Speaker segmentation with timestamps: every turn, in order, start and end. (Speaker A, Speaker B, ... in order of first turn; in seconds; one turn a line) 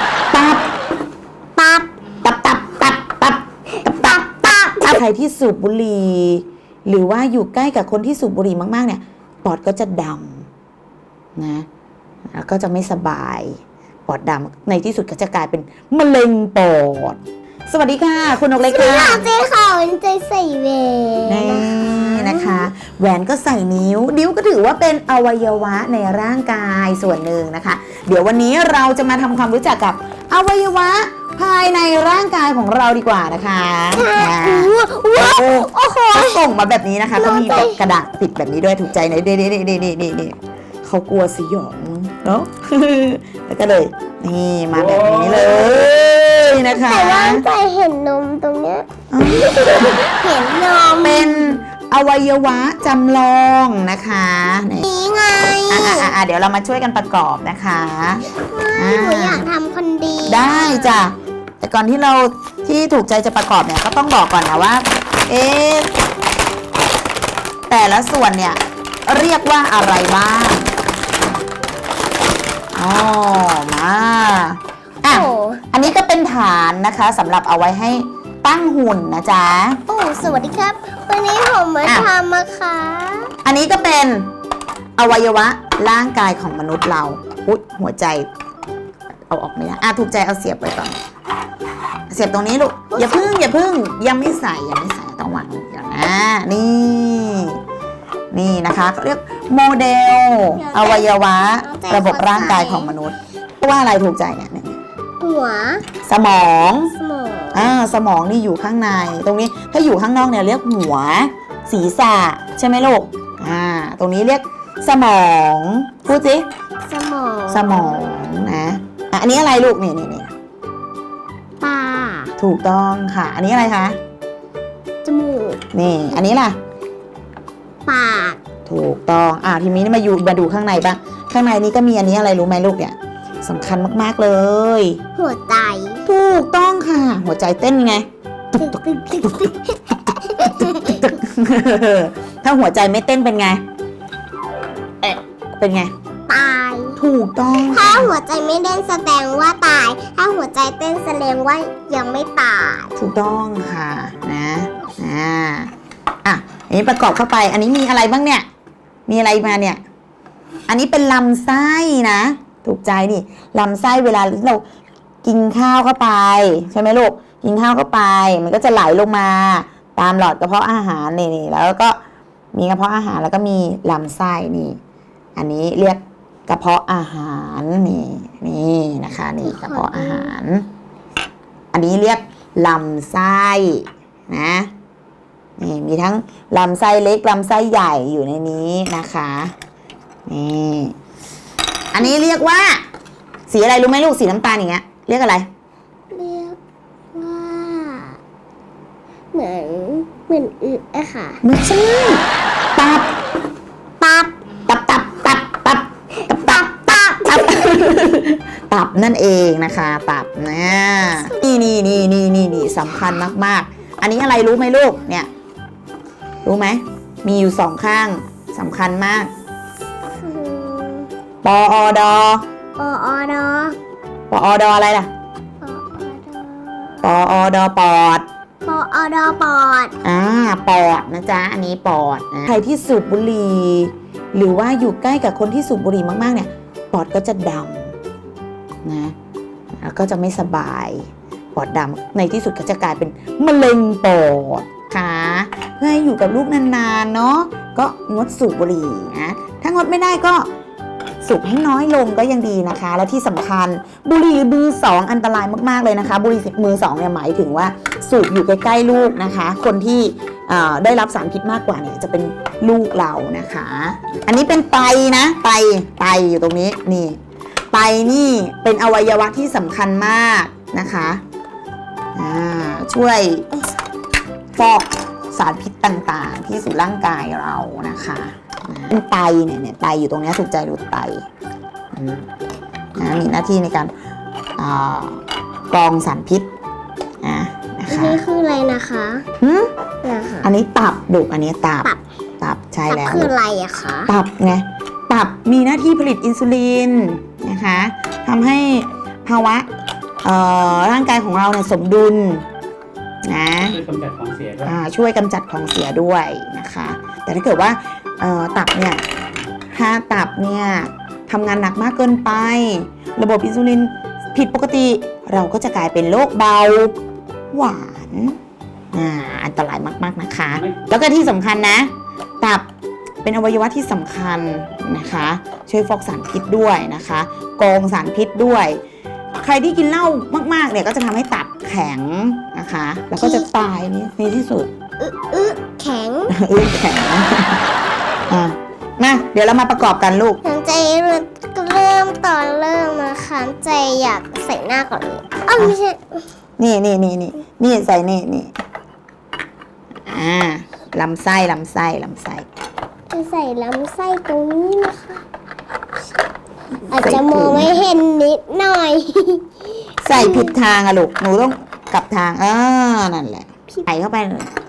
Speaker A: 0.3-0.6
Speaker B: 1.6-1.9
Speaker A: 2.2-10.4
Speaker B: 4.0-4.8
Speaker A: 11.3-11.7
Speaker A: 12.3-19.2
Speaker B: 18.7-22.7
Speaker A: 21.3-47.5
Speaker B: 33.9-36.4
Speaker B: 37.1-37.8
Speaker C: 44.8-45.7
Speaker B: 46.5-51.6
Speaker A: 49.1-49.9
Speaker A: 51.0-54.9
Speaker B: 54.8-56.1
Speaker A: 55.7-59.5
Speaker B: 58.3-61.0
Speaker A: 60.2-66.0
Speaker A: 67.7-70.8
Speaker A: 72.7-80.7
Speaker B: 75.1-75.7
Speaker B: 79.9-83.3
Speaker A: 81.8-82.1
Speaker A: 83.4-84.3
Speaker A: 85.0-88.3
Speaker A: 89.3-91.0
Speaker A: 92.1-97.6
Speaker B: 92.9-93.3
Speaker A: 98.3-104.8
Speaker B: 100.5-102.9
Speaker B: 105.2-105.8
Speaker A: 106.0-106.9
Speaker B: 106.9-107.7
Speaker A: 107.5-116.5
Speaker B: 116.8-118.0
Speaker A: 117.5-120.3
Speaker B: 121.6-122.3
Speaker A: 122.4-124.0
Speaker B: 125.0-125.7
Speaker A: 125.7-126.6
Speaker B: 127.8-128.4
Speaker A: 128.7-135.0
Speaker B: 135.2-136.0
Speaker A: 136.1-139.5
Speaker B: 138.6-141.1
Speaker A: 140.4-143.6
Speaker A: 145.0-145.9
Speaker B: 146.3-147.0
Speaker A: 147.0-148.1
Speaker B: 147.6-152.9
Speaker A: 153.0-155.7
Speaker A: 156.2-158.4
Speaker A: 159.1-159.8
Speaker A: 160.7-164.6
Speaker A: 165.2-172.0
Speaker A: 172.5-174.8
Speaker A: 175.3-180.7
Speaker B: 179.4-180.3
Speaker A: 181.7-184.7
Speaker A: 185.6-189.5
Speaker A: 190.3-190.9
Speaker A: 191.9-192.8
Speaker A: 193.5-195.5
Speaker B: 196.1-196.6
Speaker B: 197.1-198.2
Speaker B: 199.3-201.4
Speaker A: 201.4-202.2
Speaker A: 202.8-203.1
Speaker B: 204.0-204.3
Speaker A: 204.7-215.3
Speaker B: 206.5-207.8
Speaker B: 211.1-211.8
Speaker A: 216.4-219.3
Speaker B: 220.2-221.1
Speaker A: 221.4-222.4
Speaker B: 222.8-223.8
Speaker A: 224.3-225.1
Speaker B: 225.6-227.1
Speaker A: 227.0-228.2
Speaker B: 228.6-229.9
Speaker A: 230.0-237.9
Speaker A: 238.8-239.1
Speaker A: 239.8-250.5
Speaker A: 251.2-267.2
Speaker A: 267.7-271.2
Speaker A: 272.1-273.5
Speaker A: 274.5-281.2
Speaker A: 281.9-282.3
Speaker A: 282.9-283.9
Speaker A: 284.6-286.5
Speaker A: 287.2-288.2
Speaker B: 287.9-289.2
Speaker A: 289.4-289.7
Speaker B: 290.0-290.5
Speaker A: 290.4-291.9
Speaker A: 292.4-293.3
Speaker B: 292.9-294.1
Speaker A: 294.1-299.7
Speaker A: 300.2-302.4
Speaker A: 303.2-303.8
Speaker C: 303.7-304.7
Speaker A: 304.6-309.0
Speaker A: 309.7-316.9
Speaker A: 317.5-318.4
Speaker A: 318.9-322.6
Speaker C: 320.6-320.9
Speaker A: 323.2-328.8
Speaker A: 329.4-334.7
Speaker B: 333.2-333.5
Speaker B: 335.0-336.3
Speaker A: 336.3-337.6
Speaker A: 338.3-340.4
Speaker B: 340.4-346.2
Speaker A: 346.6-348.5
Speaker A: 350.1-352.5
Speaker B: 353.1-355.2
Speaker B: 356.9-360.6
Speaker A: 356.9-357.8
Speaker A: 360.0-364.5